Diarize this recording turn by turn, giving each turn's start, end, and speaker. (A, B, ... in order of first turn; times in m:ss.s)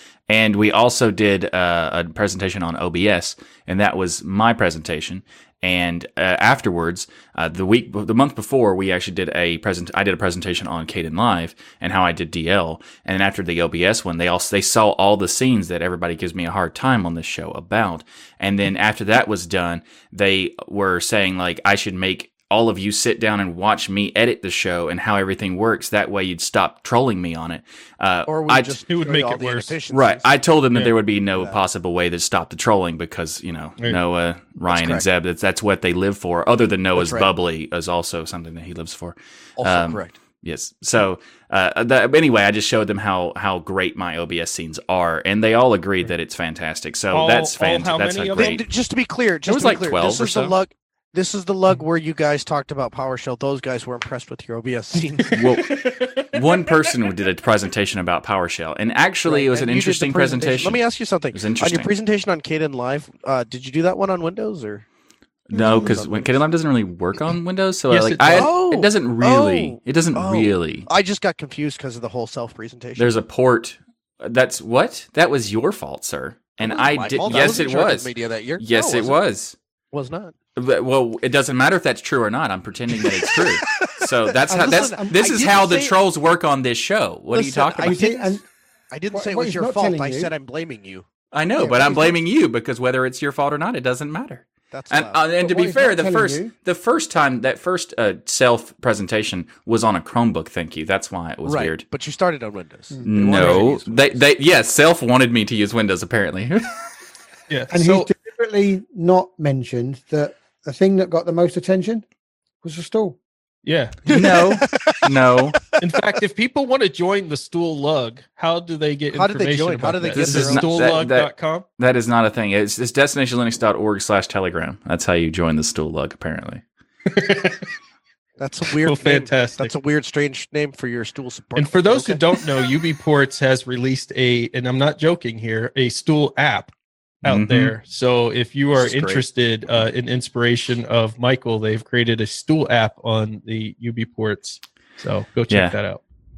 0:00.3-0:28.8 A
0:28.3-0:30.4 B
0:28.9-0:29.7 C
0:29.9-0:48.7 A
0:31.3-0:31.6 B
0:34.7-0:35.0 B
0:37.0-0:37.3 B
0:39.6-0:40.1 B
0:47.1-0:48.6 C
0:48.4-0:55.8 B
0:49.5-0:50.6 A
0:55.3-1:01.9 A
0:55.7-0:56.4 C
0:59.3-1:04.8 B
1:05.5-1:10.9 A
1:05.6-1:05.9 D
1:05.9-1:06.3 B
1:07.9-1:08.5 C
1:08.3-1:13.1 B
1:13.0-1:19.6 A
1:16.6-1:19.2 B
1:19.9-1:20.3 B
1:20.6-1:28.0 A
1:23.0-1:26.0 B
1:24.5-1:25.2 D
1:27.4-1:28.4 B
1:27.8-1:28.4 D
1:28.9-1:31.1 B
1:29.1-1:30.3 D
1:31.3-1:41.8 A
1:31.6-1:32.2 D
1:34.7-1:35.2 B
1:35.4-1:36.5 D
1:41.4-1:44.2 B
1:42.9-1:43.5 D
1:43.1-1:46.9 A
1:47.5-1:48.1 C
1:47.7-1:52.1 D
1:52.6-1:53.2 D
1:53.6-1:54.1 C
1:54.1-1:55.6 A
1:54.1-1:55.1 B
1:55.8-2:01.6 C
1:59.1-2:01.0 B
2:00.1-2:06.6 A
2:07.1-2:07.7 C
2:08.4-2:12.4 B
2:08.7-2:09.7 C
2:11.6-2:16.7 C
2:17.2-2:17.7 A
2:17.2-2:26.0 C
2:18.8-2:19.2 A